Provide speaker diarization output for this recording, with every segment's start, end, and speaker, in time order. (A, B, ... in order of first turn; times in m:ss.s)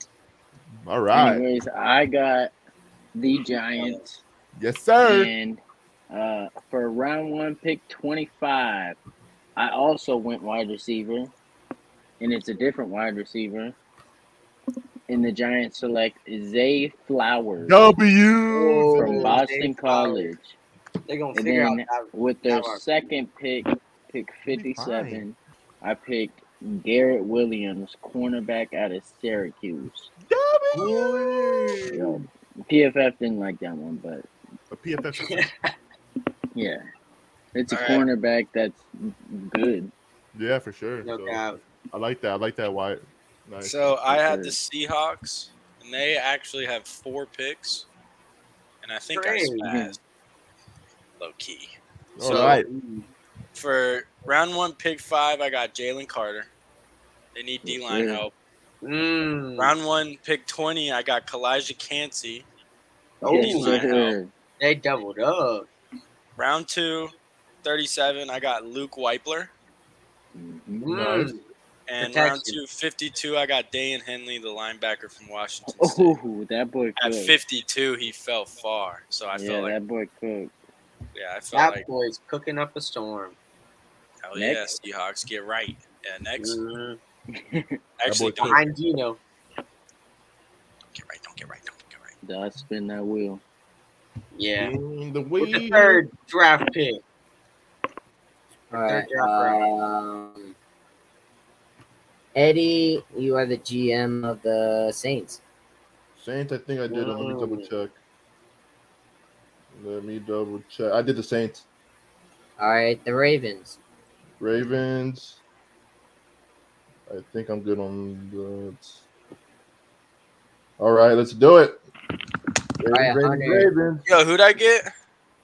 0:00.8-0:01.4 A
0:01.1-0:02.5 B
0:03.1-0:04.2 B
0:04.6-0:05.3 A
0:05.0-0:05.6 B
0:06.1-0:09.0 B
0:09.6-0:11.3 B
0:12.2-0:13.7 B
0:15.1-0:17.8 B
0:17.6-0:19.4 A
0:18.5-0:20.3 C
0:18.9-0:20.6 B
0:21.1-0:22.8 C
0:21.3-0:30.1 B
0:24.5-0:25.2 A
0:30.3-0:32.0 A
0:30.7-0:32.1 C
0:31.9-0:34.3 B
0:34.7-0:35.4 A
0:35.2-0:35.7 C
0:36.5-0:36.8 B
0:37.5-0:39.9 B
0:37.7-0:38.0 D
0:40.3-0:41.4 A
0:41.0-0:41.6 C
0:41.9-0:44.0 A
0:43.6-0:47.9 D
0:44.1-0:44.5 B
0:48.8-0:50.0 D
0:49.1-0:49.6 C
0:49.6-0:50.0 B
0:51.2-0:51.7 D
0:52.2-0:52.7 A
0:52.2-0:53.1 C
0:52.2-0:52.6 D
0:53.5-0:56.5 D
0:57.3-0:58.3 D
0:57.6-0:58.2 B
0:58.8-0:59.7 C
0:59.6-1:02.4 D
1:03.2-1:03.9 C
1:03.2-1:04.2 D
1:03.3-1:04.3 B
1:04.6-1:05.7 C
1:06.4-1:09.5 D
1:10.3-1:11.3 B
1:10.8-1:11.4 C
1:11.9-1:16.2 D
1:12.0-1:12.6 C
1:15.8-1:17.4 B
1:17.0-1:19.7 D
1:19.3-1:20.5 B
1:21.1-1:21.8 D
1:21.5-1:23.4 C
1:24.2-1:26.6 D
1:24.4-1:24.7 B
1:26.4-1:27.0 C
1:27.3-1:27.8 B
1:28.0-1:28.6 D
1:28.0-1:28.7 A
1:28.4-1:29.2 C
1:30.9-1:32.1 D
1:32.2-1:33.4 B
1:34.3-1:34.7 C
1:34.6-1:36.0 A
1:35.4-1:37.0 C
1:38.7-1:40.5 E
1:38.8-1:39.7 C
1:42.3-1:45.4 E
1:46.2-1:47.9 A
1:46.9-1:47.7 C
1:49.7-1:51.6 A
1:52.6-1:53.8 E
1:54.4-1:55.4 A
1:57.1-1:59.0 A
2:00.8-2:01.8 A
2:02.8-2:04.0 A
2:02.9-2:03.7 E
2:04.1-2:04.9 D